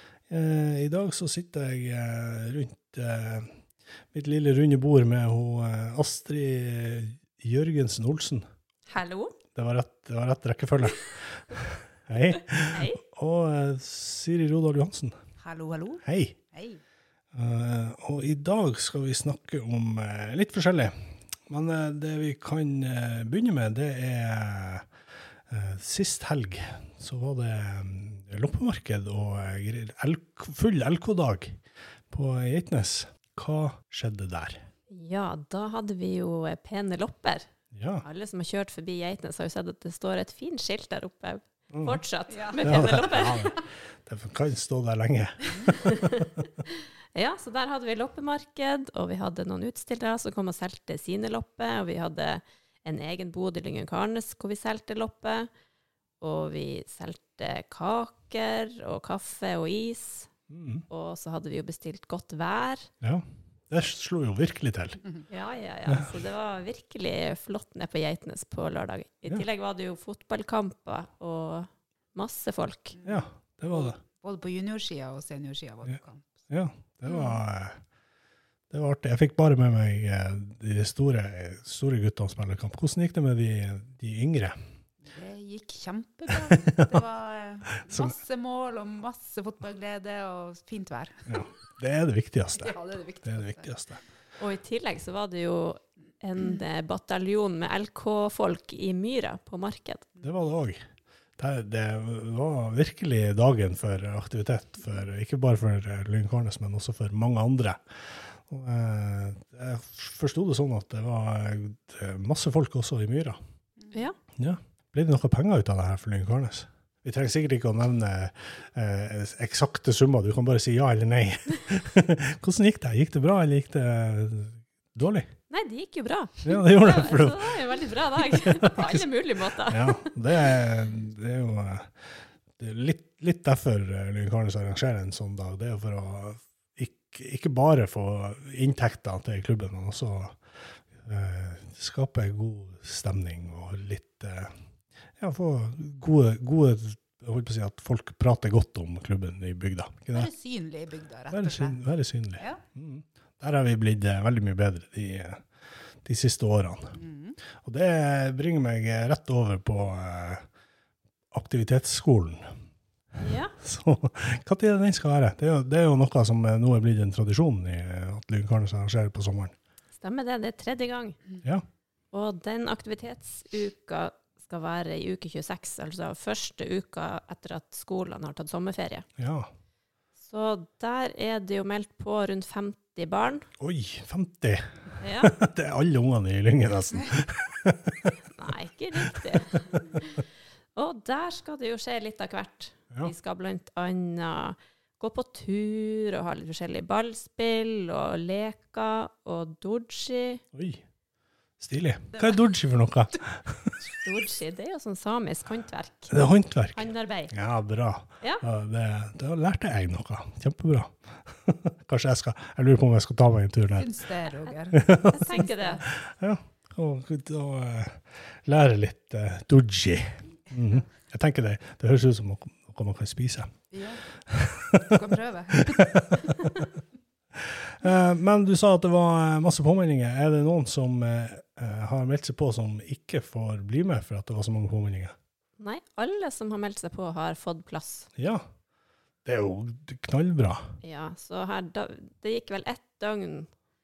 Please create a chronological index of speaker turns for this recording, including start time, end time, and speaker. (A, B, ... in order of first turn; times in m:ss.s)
0:00.3-0:08.4 A
0:08.9-0:09.3 B
0:09.6-0:15.2 A
0:12.7-0:13.0 B
0:15.4-0:16.8 C
0:16.0-0:16.4 A
0:17.3-0:24.9 A
0:25.5-0:34.7 A
0:34.9-0:37.5 B
0:37.7-0:38.0 A
0:38.0-0:43.6 B
0:41.7-0:42.0 A
0:42.3-0:42.9 C
0:42.6-0:46.0 A
0:45.8-0:46.3 B
0:47.1-0:55.5 B
0:56.2-1:00.3 B
1:00.5-1:00.9 A
1:00.9-1:02.9 B
1:03.0-1:05.0 A
1:05.3-1:13.0 B
1:13.0-1:13.3 C
1:13.0-1:14.0 A
1:13.8-1:16.3 C
1:15.9-1:17.8 A
1:18.7-1:24.6 A
1:25.0-1:31.4 C
1:26.5-1:27.0 A
1:27.9-1:28.2 A
1:31.3-1:34.0 A
1:32.6-1:33.7 C
1:34.4-1:40.1 B
1:40.2-1:40.8 A
1:41.4-1:53.4 A
1:54.4-2:05.3 A
2:05.5-2:10.5 B
2:06.4-2:07.6 A
2:08.2-2:09.1 A
2:09.6-2:11.9 A
2:12.6-2:20.4 A
2:21.0-2:24.5 A
2:25.2-2:30.3 A
2:30.1-2:31.8 C
2:31.3-2:35.4 A
2:36.0-2:37.0 A
2:36.9-2:37.4 C
2:37.6-2:40.4 A
2:41.3-2:42.5 A
2:43.2-2:43.5 B
2:43.6-2:49.6 A
2:50.0-2:51.2 B
2:52.1-2:59.1 B
2:59.2-2:59.5 A
3:00.2-3:03.5 B
3:03.6-3:08.1 A
3:05.0-3:05.3 B
3:08.3-3:10.2 B
3:10.8-3:20.4 B
3:20.5-3:20.8 A
3:21.6-3:23.8 A
3:23.8-3:26.2 B
3:26.1-3:34.0 A
3:26.7-3:27.3 B
3:33.8-3:35.8 C
3:34.7-3:35.2 A
3:35.1-3:35.8 B
3:35.8-3:43.5 A
3:43.7-3:44.0 C
3:44.2-3:44.9 A
3:44.9-3:45.9 C
3:45.6-3:46.6 A
3:47.5-3:55.2 A
3:55.6-3:58.1 B
3:58.2-3:58.5 A
3:59.2-4:00.8 A
4:00.8-4:03.5 B